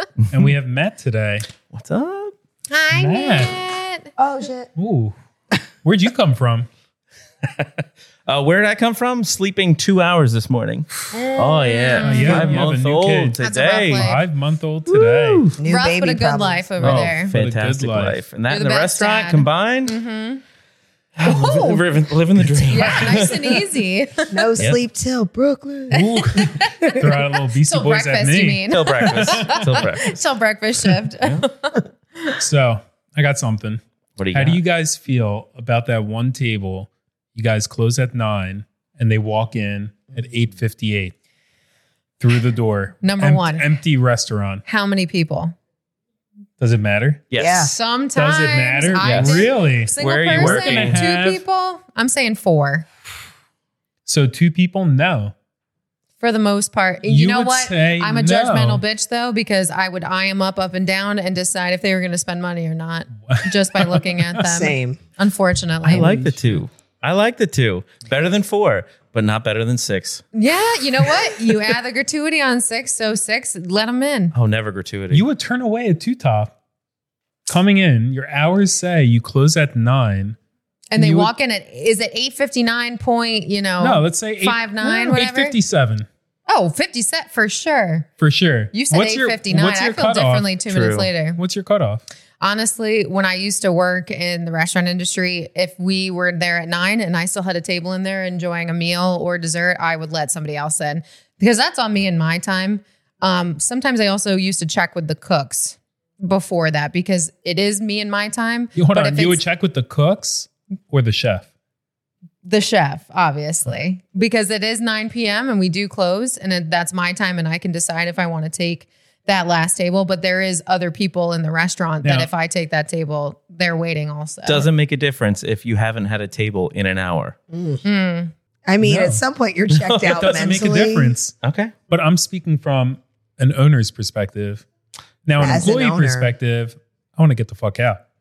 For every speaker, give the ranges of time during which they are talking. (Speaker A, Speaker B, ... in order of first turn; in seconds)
Speaker A: 0.3-1.5, 2.9-3.5, 4.8-5.1, 5.8-6.7, 12.0-15.5, 16.8-18.2, 22.4-23.2, 25.9-29.8, 32.4-41.1, 42.2-44.6, 46.6-47.2, 48.1-51.4, 54.0-55.3, 57.0-58.8, 63.3-64.3, 65.8-66.6, 75.1-76.5, 77.5-80.4, 81.0-81.3, 83.8-86.0, 88.2-90.6, 91.3-92.0, 108.8-111.5, 122.0-122.3, 128.8-129.2, 130.1-131.3, 131.9-134.6, 135.2-138.0
Speaker B: 1.7-2.3, 7.5-14.2, 14.9-15.6, 16.8-20.0, 21.2-23.6, 28.7-30.2, 34.2-34.6, 47.3-47.7, 48.9-51.0, 65.8-70.2, 74.3-75.2, 90.7-91.1, 124.5-127.3, 129.7-130.2, 131.4-131.7
Speaker C: 2.7-4.1, 11.1-12.7, 13.4-14.2, 15.6-17.3, 18.5-20.4, 21.2-21.9, 22.7-24.6, 25.9-32.3, 43.0-43.7, 44.6-45.5, 47.6-52.9, 56.2-66.2, 70.3-74.3, 80.9-85.5, 86.5-88.1, 88.7-91.4, 92.4-109.4, 112.5-124.7, 127.8-128.3
Speaker D: 4.2-4.7, 15.6-16.7, 24.3-26.0, 47.4-47.7, 64.4-65.0, 127.5-127.8, 128.7-131.2, 135.4-136.3